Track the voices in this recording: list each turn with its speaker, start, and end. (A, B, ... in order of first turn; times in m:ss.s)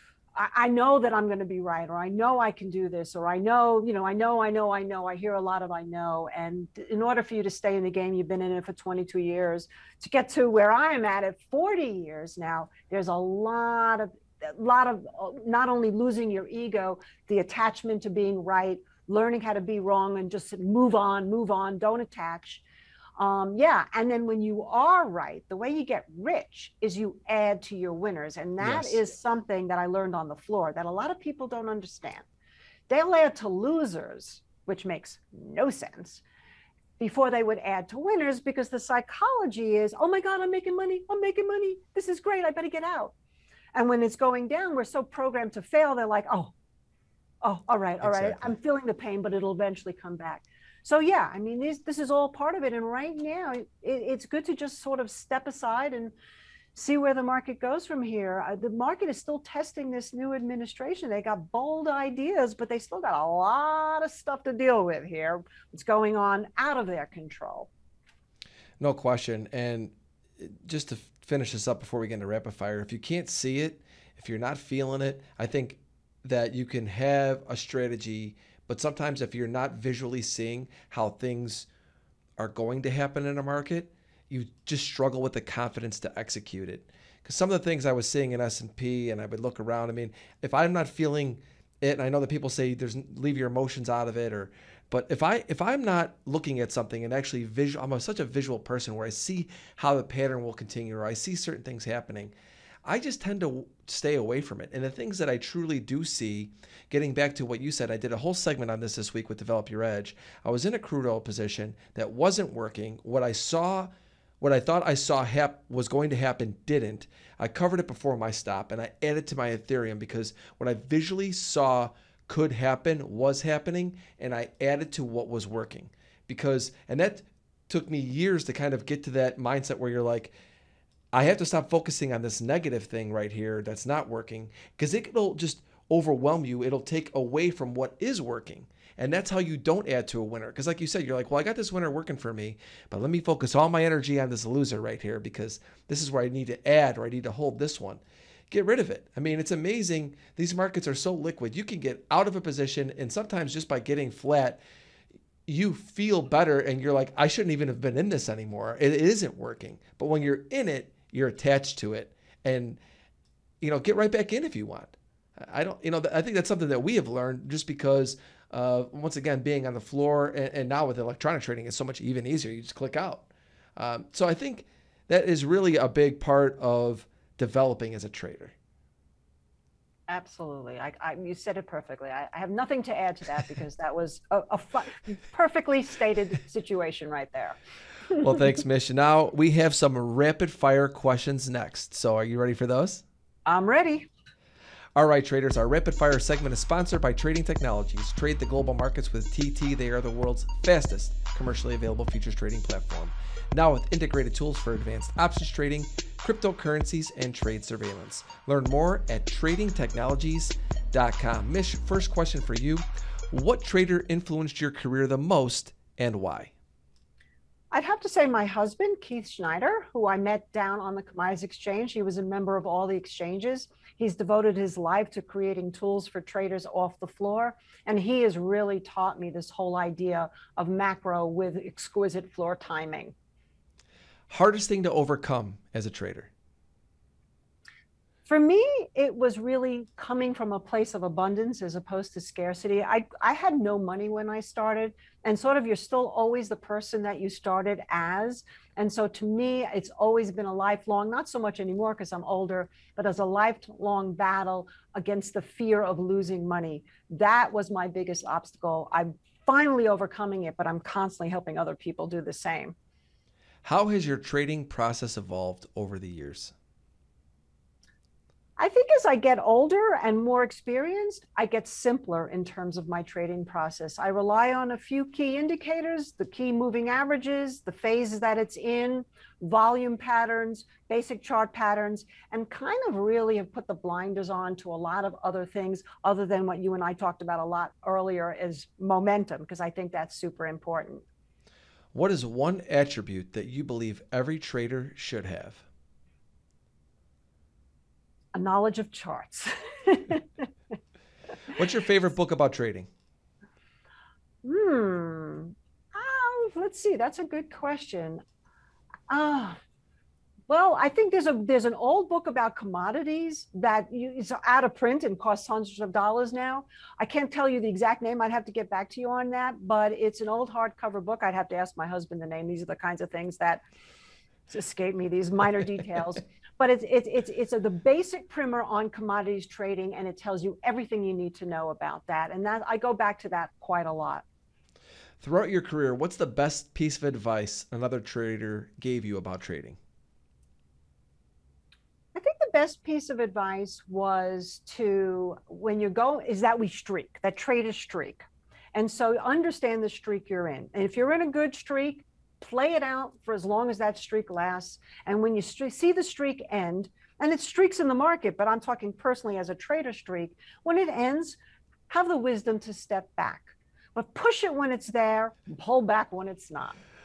0:00.4-0:22.6 A
0:23.2-0:32.3 A
0:28.6-0:29.0 B
0:32.9-0:36.2 A
0:37.0-0:43.1 A
0:43.7-0:46.5 A
0:47.4-0:56.1 A
0:48.0-0:48.5 B
0:56.8-1:07.7 A
1:08.8-1:21.7 B
1:22.4-1:42.3 B
1:42.8-1:53.9 B
1:54.4-2:10.3 B
2:11.1-2:34.6 B
2:35.5-2:42.8 B
2:43.6-2:58.6 B
3:00.1-3:07.6 A
3:08.2-3:13.0 B
3:13.5-3:14.1 A
3:15.0-3:36.5 B
3:37.7-3:53.1 A
3:54.3-3:56.3 B
3:58.3-4:22.8 A
4:23.6-4:26.5 B
4:28.6-4:51.0 A
4:51.9-4:55.6 B
4:58.3-5:00.5 A
5:01.5-5:02.9 B
5:04.4-5:08.2 A
5:09.1-5:09.6 A
5:10.5-5:23.6 A
5:24.5-5:34.2 A
5:35.2-5:39.8 B
5:42.2-5:48.2 A
5:48.7-6:01.4 A
6:01.9-6:06.8 A